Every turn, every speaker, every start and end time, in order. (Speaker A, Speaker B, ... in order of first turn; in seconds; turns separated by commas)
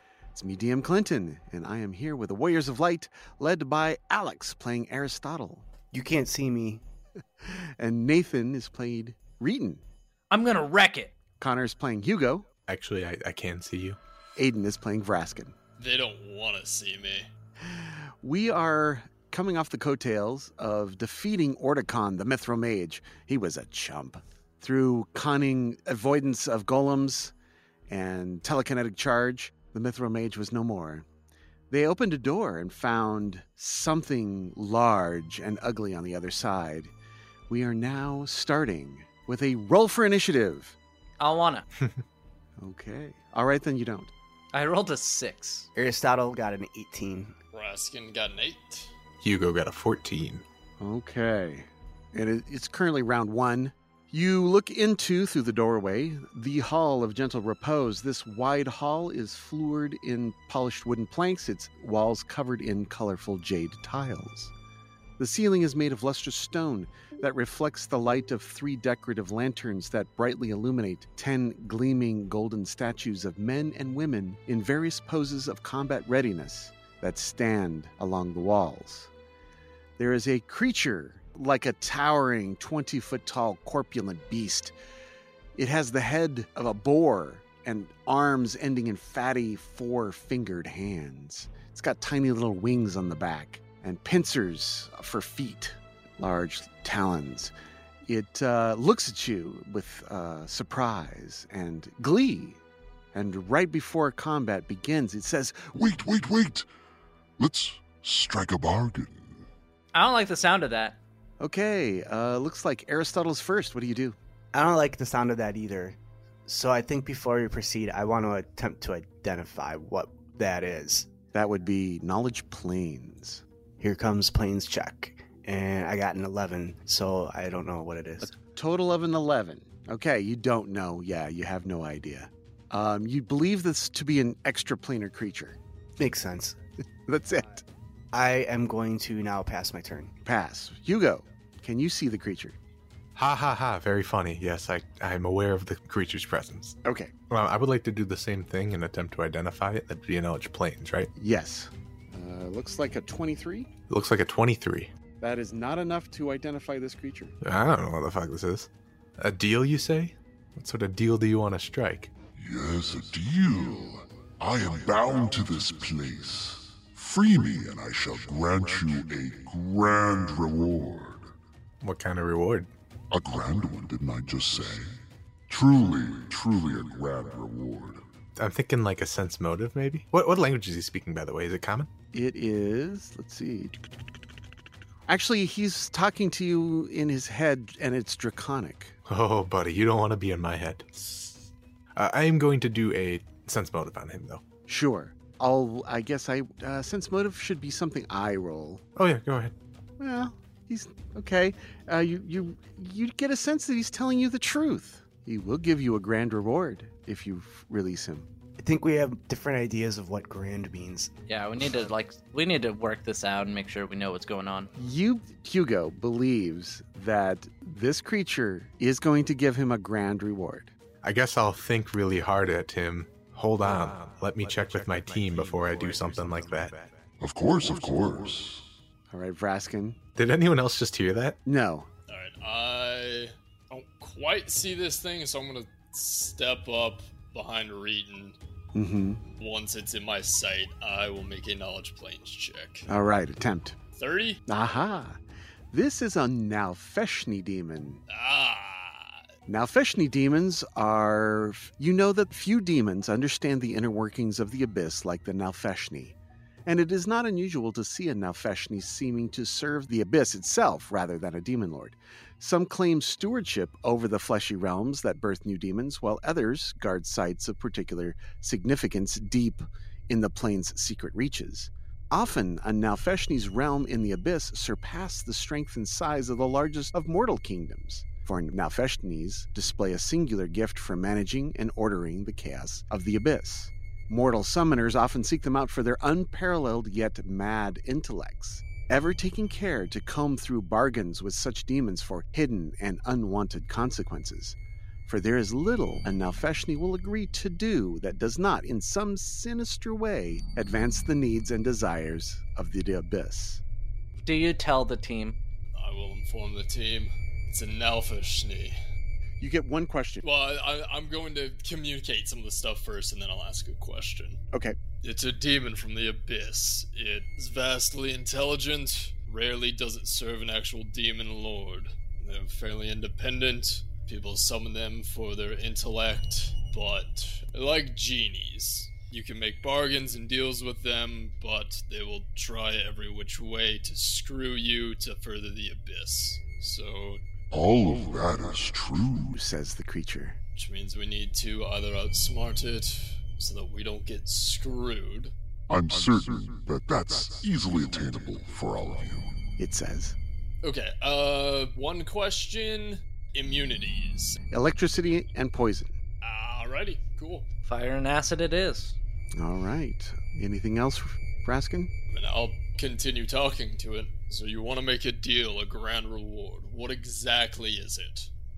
Speaker A: 0.3-5.7, Speaker B: 5.9-6.8, Speaker A: 7.4-9.8, Speaker C: 10.3-11.1, Speaker A: 11.4-12.5, Speaker D: 12.7-14.0, Speaker A: 14.4-15.5, Speaker E: 15.8-17.3, Speaker A: 17.6-27.3, Speaker A: 27.9-31.1, Speaker A: 31.7-36.9, Speaker A: 37.5-40.8, Speaker C: 41.2-41.7, Speaker A: 42.6-44.1, Speaker C: 44.5-45.7, Speaker B: 45.8-47.3, Speaker E: 47.5-48.9, Speaker D: 49.2-50.4, Speaker A: 50.8-64.5, Speaker A: 65.2-79.1, Speaker A: 80.0-84.8, Speaker A: 85.6-97.5, Speaker A: 98.1-102.6, Speaker A: 103.1-105.7, Speaker F: 105.7-106.7, Speaker F: 107.4-109.4, Speaker C: 109.9-111.0, Speaker A: 111.4-114.2, Speaker B: 114.5-121.1, Speaker A: 121.3-123.4, Speaker B: 123.8-128.3, Speaker A: 128.2-135.6, Speaker B: 136.0-136.6, Speaker A: 137.1-137.7, Speaker B: 138.1-140.1, Speaker A: 140.2-142.6, Speaker D: 143.2-146.8, Speaker A: 146.8-147.1, Speaker D: 147.3-151.1, Speaker A: 151.2-153.7, Speaker D: 153.9-154.9, Speaker A: 155.2-157.3, Speaker D: 157.4-162.1, Speaker F: 162.4-171.3, Speaker D: 171.8-172.7, Speaker F: 173.1-174.9, Speaker F: 175.5-178.1, Speaker D: 178.4-181.9, Speaker A: 182.1-183.8, Speaker A: 185.1-189.0, Speaker D: 189.1-194.4, Speaker A: 194.7-198.8, Speaker D: 199.0-199.5, Speaker A: 200.0-208.3, Speaker B: 208.6-211.1, Speaker C: 211.3-214.7, Speaker A: 214.8-220.7, Speaker D: 221.0-226.9, Speaker F: 227.2-228.6, Speaker A: 229.1-230.0, Speaker D: 230.2-231.4, Speaker A: 231.4-231.9, Speaker E: 232.1-238.4, Speaker A: 238.8-239.2, Speaker E: 239.4-242.9, Speaker A: 242.9-243.8, Speaker E: 244.0-244.4, Speaker A: 244.5-245.2, Speaker A: 245.7-248.0, Speaker E: 248.1-249.2, Speaker A: 249.5-303.6, Speaker C: 304.2-305.4, Speaker E: 305.7-308.8, Speaker A: 309.4-310.2, Speaker E: 310.2-314.4, Speaker A: 314.5-314.8, Speaker E: 315.0-337.2, Speaker F: 337.5-339.4, Speaker A: 339.2-340.4, Speaker E: 340.6-345.3, Speaker F: 345.7-349.4, Speaker A: 349.6-350.2, Speaker E: 350.6-354.4, Speaker A: 354.5-355.9, Speaker E: 356.2-357.5, Speaker C: 357.7-359.0, Speaker A: 359.4-361.9, Speaker E: 362.1-368.3